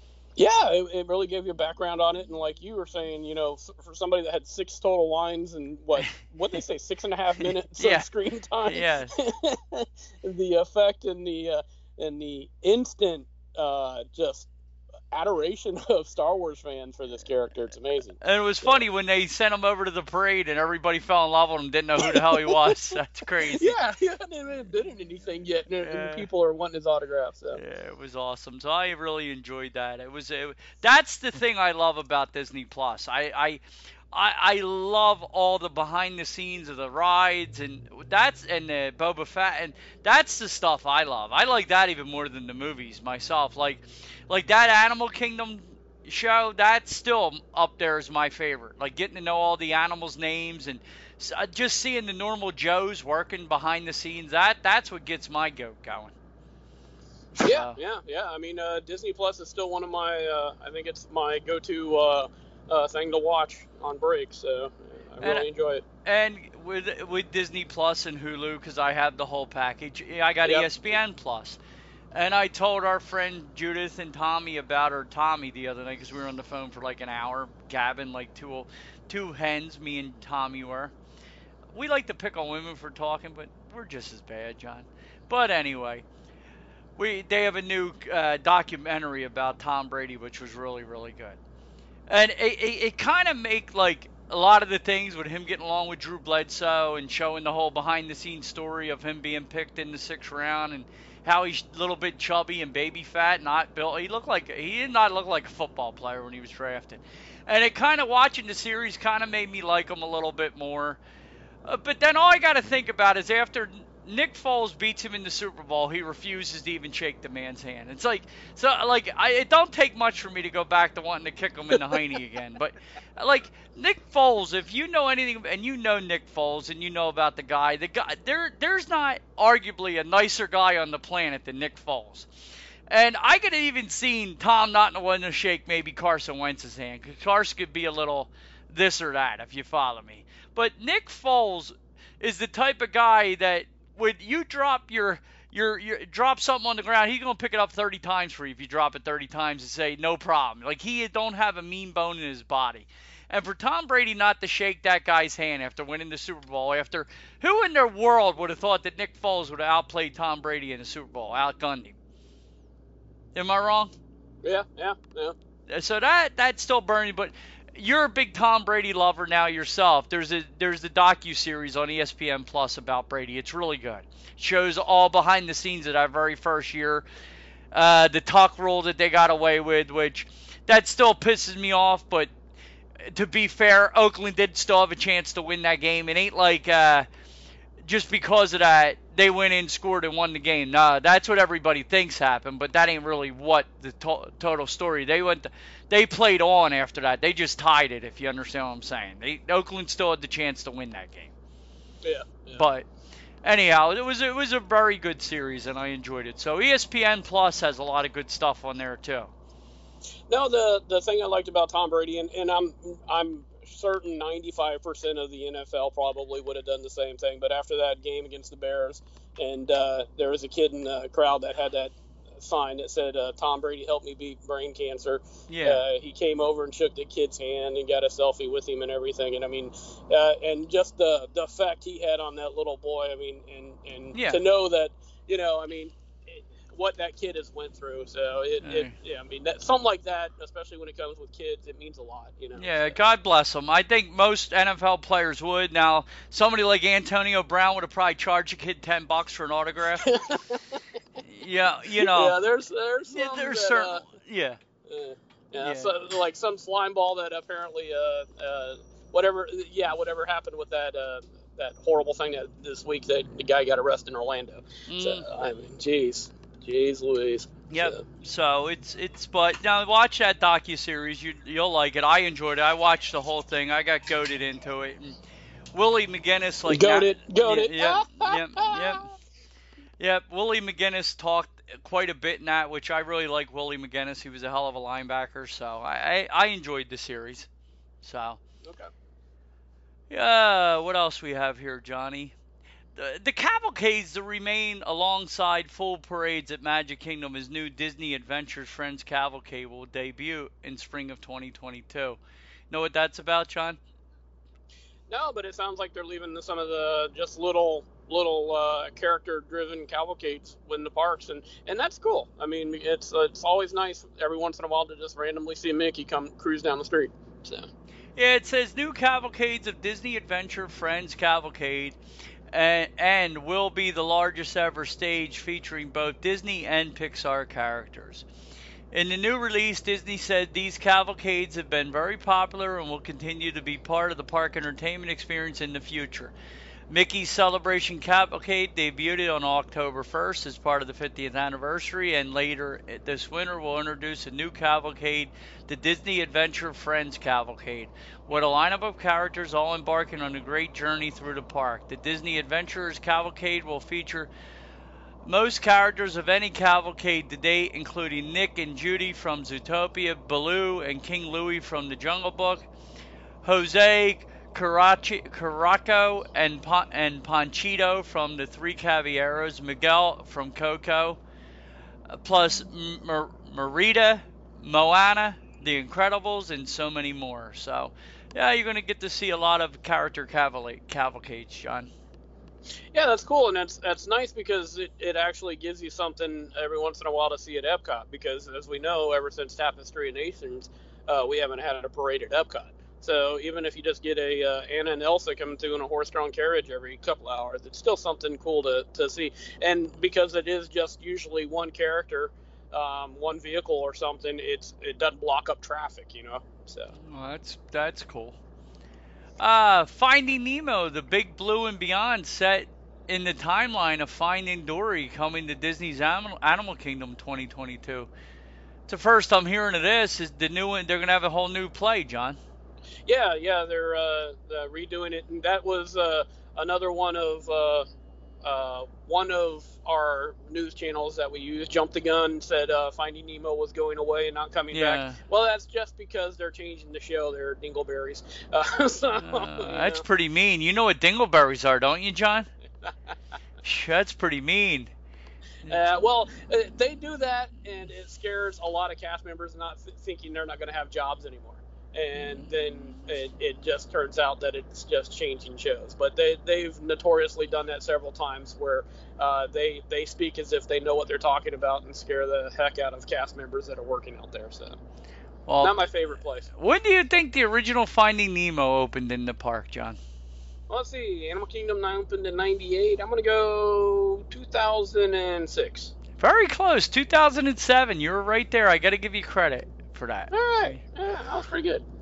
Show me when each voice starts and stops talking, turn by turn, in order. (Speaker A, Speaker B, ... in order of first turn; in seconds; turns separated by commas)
Speaker A: 0.3-14.5, Speaker B: 7.7-8.1, Speaker B: 8.6-9.1, Speaker A: 15.1-18.8, Speaker B: 18.2-23.8, Speaker A: 22.0-22.7, Speaker A: 23.4-27.6, Speaker B: 25.8-26.3, Speaker B: 27.5-56.1, Speaker A: 57.4-65.8, Speaker B: 57.4-57.8, Speaker B: 65.2-65.5, Speaker B: 66.0-71.6, Speaker A: 70.4-70.7, Speaker B: 72.1-80.9, Speaker B: 81.7-86.0, Speaker B: 87.0-91.4, Speaker B: 92.1-111.0, Speaker B: 111.6-132.3, Speaker B: 132.9-162.0, Speaker B: 163.3-163.9, Speaker A: 164.4-165.3, Speaker B: 165.7-177.0, Speaker B: 177.7-182.3, Speaker B: 183.0-187.1, Speaker B: 187.8-201.3, Speaker A: 202.0-202.6, Speaker B: 202.5-202.9, Speaker B: 203.4-209.3, Speaker A: 210.3-243.0, Speaker B: 225.5-225.8, Speaker B: 234.1-234.4, Speaker B: 238.6-238.9, Speaker B: 242.6-250.1, Speaker A: 250.0-250.8, Speaker B: 251.2-252.4, Speaker A: 251.9-254.0, Speaker B: 253.1-254.6, Speaker A: 254.9-268.0, Speaker B: 255.6-255.9, Speaker B: 264.9-265.3, Speaker B: 267.7-275.2, Speaker B: 275.7-279.1, Speaker A: 276.6-279.0, Speaker B: 280.0-287.5, Speaker B: 288.0-288.4, Speaker A: 288.6-288.9, Speaker B: 290.1-292.3, Speaker B: 292.9-302.2, Speaker B: 302.7-303.8, Speaker A: 305.1-317.7, Speaker B: 318.2-322.0, Speaker B: 322.5-328.2, Speaker B: 328.9-336.3, Speaker B: 336.9-354.3, Speaker B: 355.2-362.7, Speaker B: 363.4-371.2, Speaker B: 372.1-381.9, Speaker A: 382.9-406.9, Speaker B: 406.9-408.4, Speaker B: 409.4-418.1, Speaker B: 418.9-422.4, Speaker A: 423.1-427.9, Speaker A: 428.4-440.0, Speaker B: 434.7-435.2, Speaker B: 439.2-442.5, Speaker B: 443.6-444.9, Speaker B: 445.6-446.0, Speaker A: 445.7-464.8, Speaker B: 452.1-453.1, Speaker B: 465.5-465.7, Speaker A: 465.6-466.5, Speaker B: 466.5-470.0, Speaker A: 470.7-475.9, Speaker B: 476.1-480.8, Speaker A: 480.3-481.8